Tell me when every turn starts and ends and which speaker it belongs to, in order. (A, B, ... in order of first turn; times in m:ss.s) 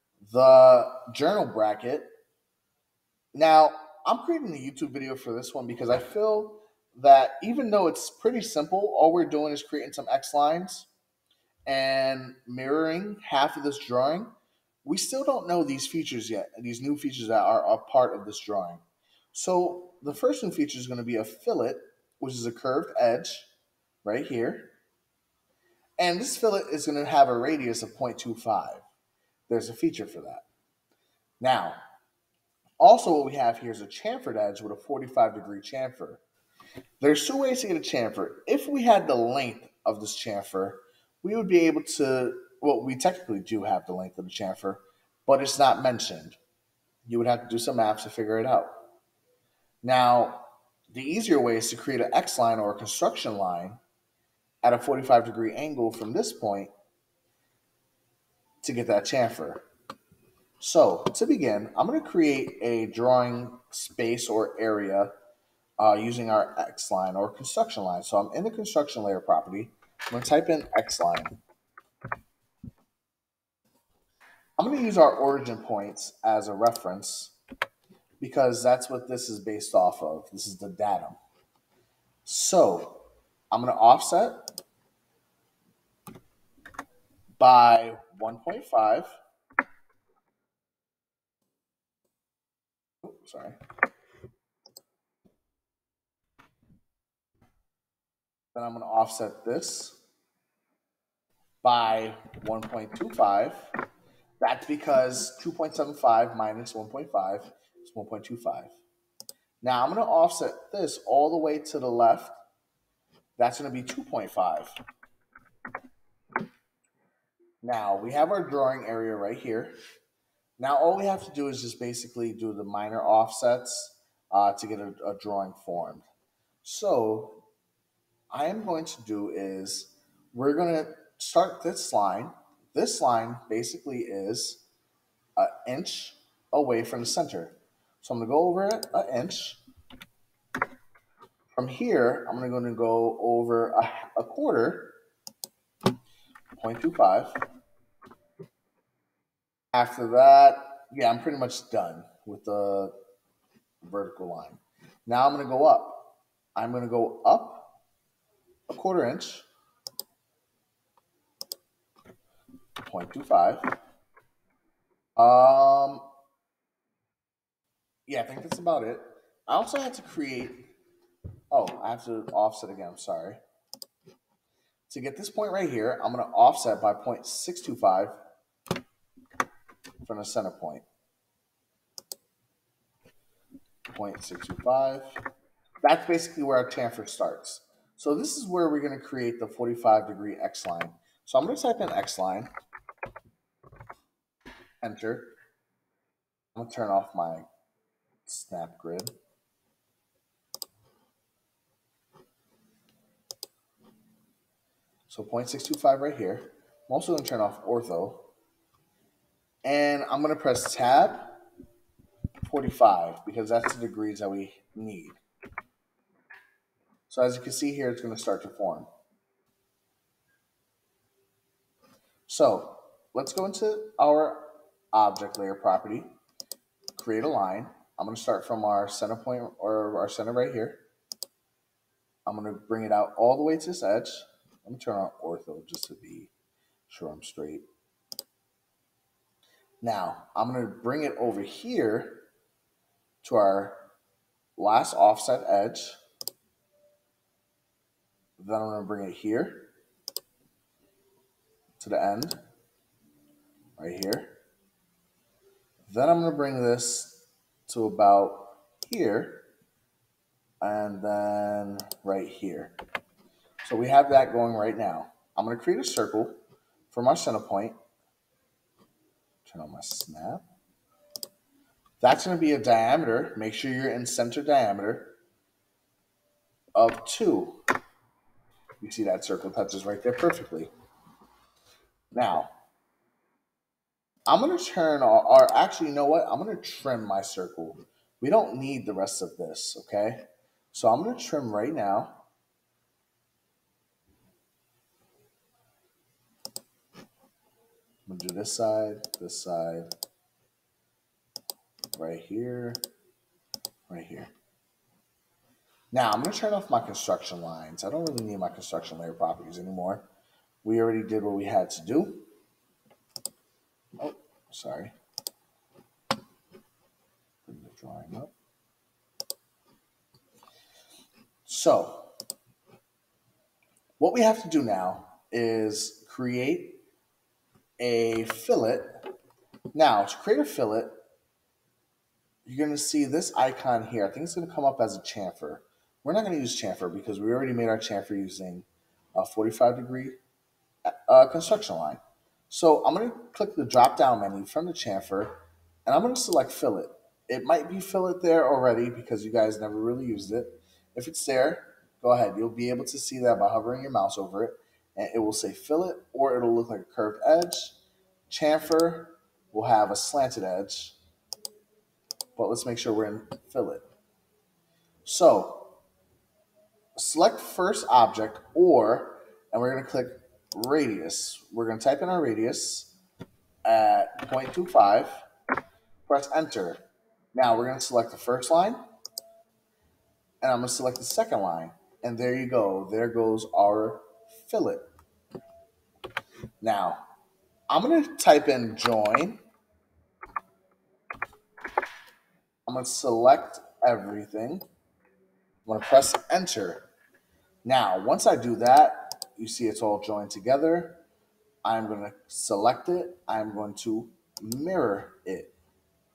0:00.2-0:02.1 A
0:03.3-0:10.9 A
0:11.6-0:14.3 A
0:14.8-0:18.8 A
0:19.3-0:23.5 A
0:24.0-0:24.7 A
0:26.0-0:28.8 A
0:29.5-0:30.5 A
0:31.4-0:31.8 A
0:32.8-0:36.2 A
0:37.0-0:46.4 A
0:47.0-0:48.7 A
0:49.8-0:53.8 A
0:54.6-0:56.7 A
0:58.6-0:59.6 A
1:00.6-1:05.1 A
1:05.8-1:11.4 A
1:14.6-1:17.4 A
1:18.2-1:21.2 A
1:22.2-1:24.4 A
1:27.4-1:29.1 A
1:33.0-1:33.6 A
1:38.5-1:40.0 A
1:41.6-1:43.7 A
1:44.4-1:48.8 A
1:49.6-1:52.4 A
1:53.4-1:54.7 A
1:57.6-1:59.7 A
2:00.6-2:06.1 A
2:06.6-2:07.4 A
2:08.3-2:14.6 A
2:15.4-2:19.6 A
2:21.5-2:25.0 A
2:26.6-2:27.4 A
2:29.7-2:33.0 A
2:33.8-2:37.8 A
2:38.7-2:39.4 A
2:42.8-2:43.8 A
2:45.2-2:46.0 A
2:48.1-2:50.7 A
2:51.5-2:53.4 A
2:54.9-2:58.2 A
3:00.0-3:00.8 A
3:03.9-3:05.2 A
3:05.8-3:12.5 A
3:14.8-3:15.3 A
3:16.5-3:17.5 A
3:18.2-3:19.1 A
3:25.1-3:28.3 A
3:29.6-3:31.4 A
3:32.4-3:35.2 A
3:37.1-3:38.9 A
3:42.3-3:46.1 A
3:46.9-3:50.8 A
3:52.2-3:56.3 A
3:56.9-3:57.6 A
3:59.8-4:02.3 A
4:03.2-4:03.9 A
4:04.6-4:06.0 A
4:08.4-4:09.7 A
4:11.8-4:12.4 A
4:13.8-4:14.4 A
4:15.8-4:19.5 A
4:20.6-4:22.7 A
4:23.6-4:26.4 A
4:26.9-4:27.8 A
4:29.4-4:30.4 A
4:32.0-4:35.2 A
4:36.7-4:37.6 A
4:38.8-4:40.7 A
4:42.1-4:42.5 A
4:44.3-4:52.2 A
4:58.1-4:59.9 A
5:01.9-5:02.8 A
5:03.9-5:04.3 A
5:05.9-5:10.0 A
5:10.6-5:12.3 A
5:14.0-5:14.9 A
5:17.4-5:18.3 A
5:21.4-5:22.1 A
5:24.0-5:26.8 A
5:27.8-5:29.0 A
5:29.7-5:30.9 A
5:32.4-5:40.2 A
5:40.8-5:57.8 A
5:58.3-6:01.0 A
6:02.4-6:03.8 A
6:05.0-6:05.8 A
6:07.0-6:13.0 A
6:13.6-6:15.2 A
6:16.1-6:16.8 A
6:17.3-6:18.8 A
6:20.4-6:24.8 A
6:26.6-6:27.0 A
6:27.7-6:29.4 A
6:32.6-6:34.6 A
6:35.6-6:36.9 A
6:37.6-6:41.0 A
6:41.6-6:45.5 A